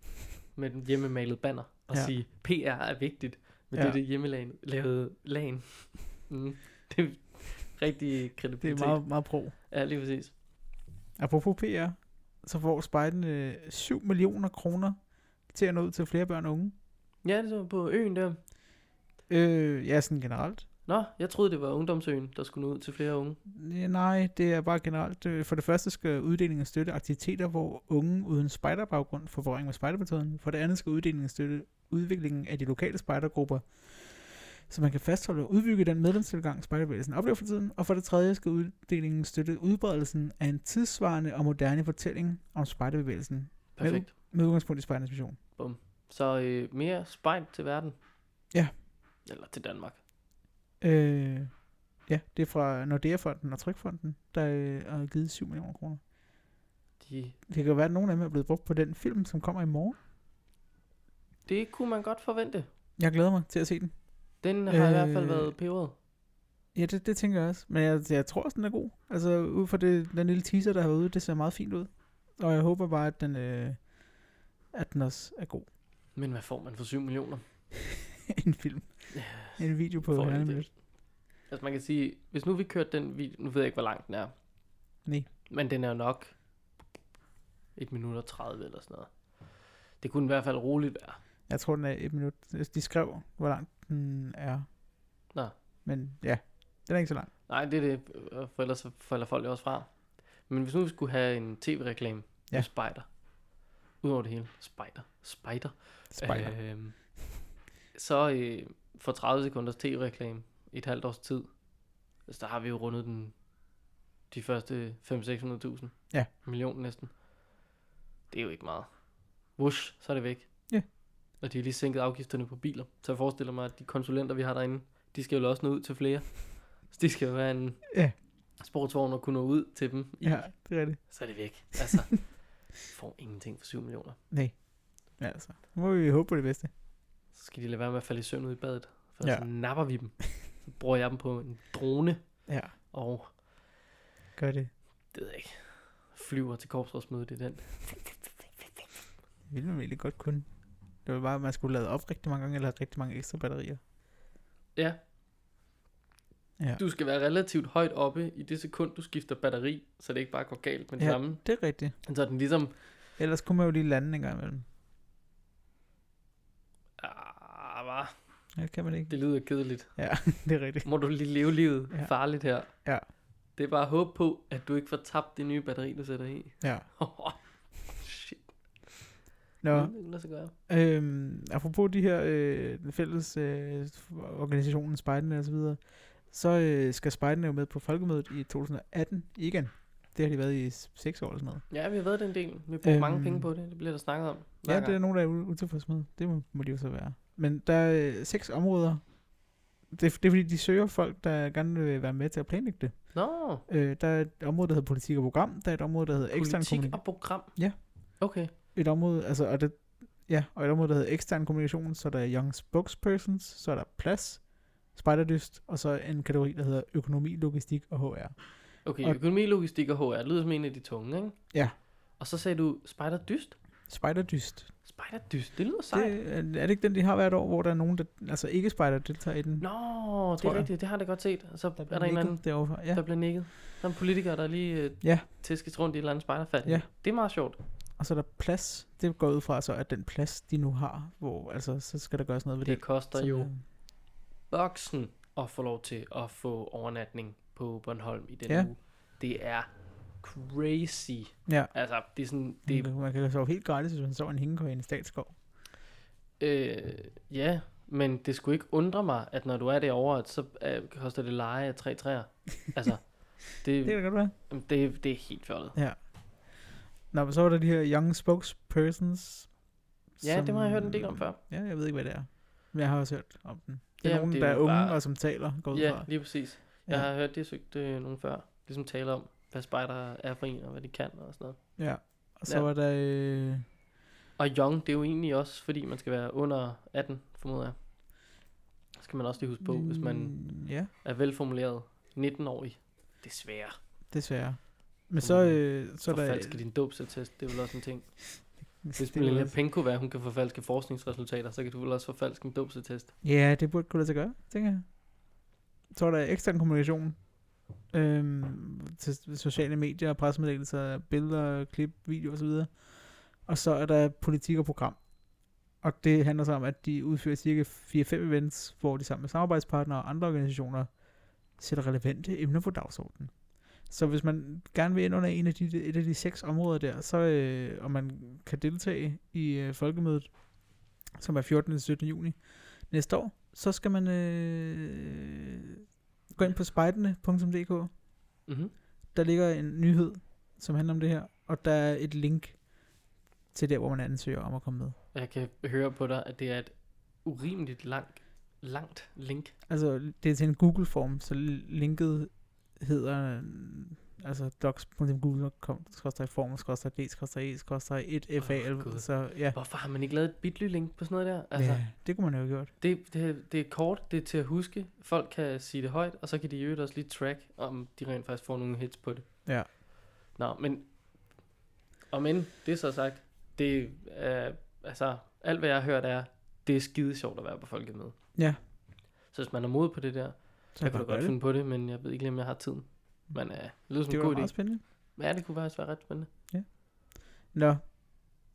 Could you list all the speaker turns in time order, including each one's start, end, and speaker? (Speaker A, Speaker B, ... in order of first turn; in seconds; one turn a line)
Speaker A: 0.5-10.3
Speaker B: 8.6-9.5
Speaker B: 11.2-16.7
Speaker A: 17.2-18.4
Speaker B: 19.3-20.6
Speaker A: 20.9-23.4
Speaker B: 23.5-45.4
Speaker A: 43.8-44.1
Speaker A: 45.5-47.9
Speaker A: 49.2-50.0
Speaker B: 50.8-51.5
Speaker B: 52.1-56.0
Speaker A: 57.0-57.4
Speaker B: 57.5-60.0
Speaker A: 61.5-62.7
Speaker B: 63.0-64.0
Speaker A: 64.4-65.9
Speaker B: 64.7-65.5
Speaker B: 66.7-74.0
Speaker B: 74.7-75.7
Speaker A: 76.1-77.4
Speaker B: 78.3-80.7
Speaker A: 79.1-80.9
Speaker A: 81.5-84.3
Speaker A: 85.5-86.3
Speaker A: 87.8-89.1
Speaker A: 90.0-91.2
Speaker B: 91.5-94.7
Speaker B: 95.8-97.3
Speaker A: 97.5-103.3
Speaker A: 104.0-107.2
Speaker B: 106.1-106.6
Speaker A: 107.9-111.6
Speaker A: 112.2-113.4
Speaker A: 114.3-117.2
Speaker A: 118.3-118.9
Speaker A: 119.5-120.8
Speaker A: 121.4-128.0
Speaker A: 128.6-134.2
Speaker B: 130.2-131.9
Speaker B: 134.3-136.7
Speaker A: 137.3-143.3
Speaker B: 142.5-142.7
Speaker B: 144.4-144.7
Speaker A: 145.1-148.3
Speaker B: 149.5-150.5
Speaker B: 151.0-153.8
Speaker A: 156.8-162.8
Speaker B: 161.0-161.9
Speaker B: 163.2-164.7
Speaker A: 167.0-168.1
Speaker B: 168.6-170.9
Speaker A: 169.1-170.1
Speaker A: 170.8-172.9
Speaker B: 171.9-173.0
Speaker A: 173.5-179.1
Speaker B: 176.6-176.9
Speaker B: 179.6-179.9
Speaker A: 179.7-180.5
Speaker B: 180.7-191.6
Speaker A: 191.7-194.9
Speaker B: 192.8-193.5
Speaker B: 194.7-199.3
Speaker B: 199.9-219.2
Speaker A: 203.1-203.6
Speaker A: 206.3-208.5
Speaker A: 218.8-221.4
Speaker A: 222.2-223.6
Speaker B: 223.9-224.7
Speaker A: 224.8-226.1
Speaker B: 225.9-229.7
Speaker A: 229.6-237.6
Speaker B: 230.3-230.7
Speaker B: 231.8-233.0
Speaker B: 238.0-243.6
Speaker A: 242.6-243.9
Speaker A: 244.5-252.9
Speaker B: 251.5-251.7
Speaker B: 252.7-255.3
Speaker A: 256.4-265.8
Speaker B: 263.8-264.3
Speaker B: 265.7-269.6
Speaker B: 270.2-277.1
Speaker A: 270.2-271.4
Speaker A: 274.0-282.7
Speaker B: 281.8-283.6
Speaker A: 284.4-287.8
Speaker A: 289.0-293.8
Speaker B: 289.6-290.9
Speaker B: 294.1-296.6
Speaker A: 295.2-303.1
Speaker B: 298.8-299.5
Speaker B: 303.2-304.9
Speaker B: 305.9-307.3
Speaker B: 307.9-315.0
Speaker B: 315.8-320.9
Speaker B: 321.6-323.3
Speaker B: 323.9-330.3
Speaker B: 331.1-335.8
Speaker B: 336.3-337.9
Speaker A: 338.5-338.7
Speaker B: 339.1-342.7
Speaker B: 343.5-344.9
Speaker A: 345.1-349.5
Speaker B: 349.7-359.6
Speaker A: 358.4-361.9
Speaker B: 361.5-362.7
Speaker A: 362.8-369.7
Speaker A: 370.3-370.9
Speaker A: 372.1-378.2
Speaker B: 378.3-378.6
Speaker A: 379.3-386.3
Speaker B: 380.7-381.3
Speaker B: 384.1-384.8
Speaker B: 386.5-386.8
Speaker B: 387.3-387.9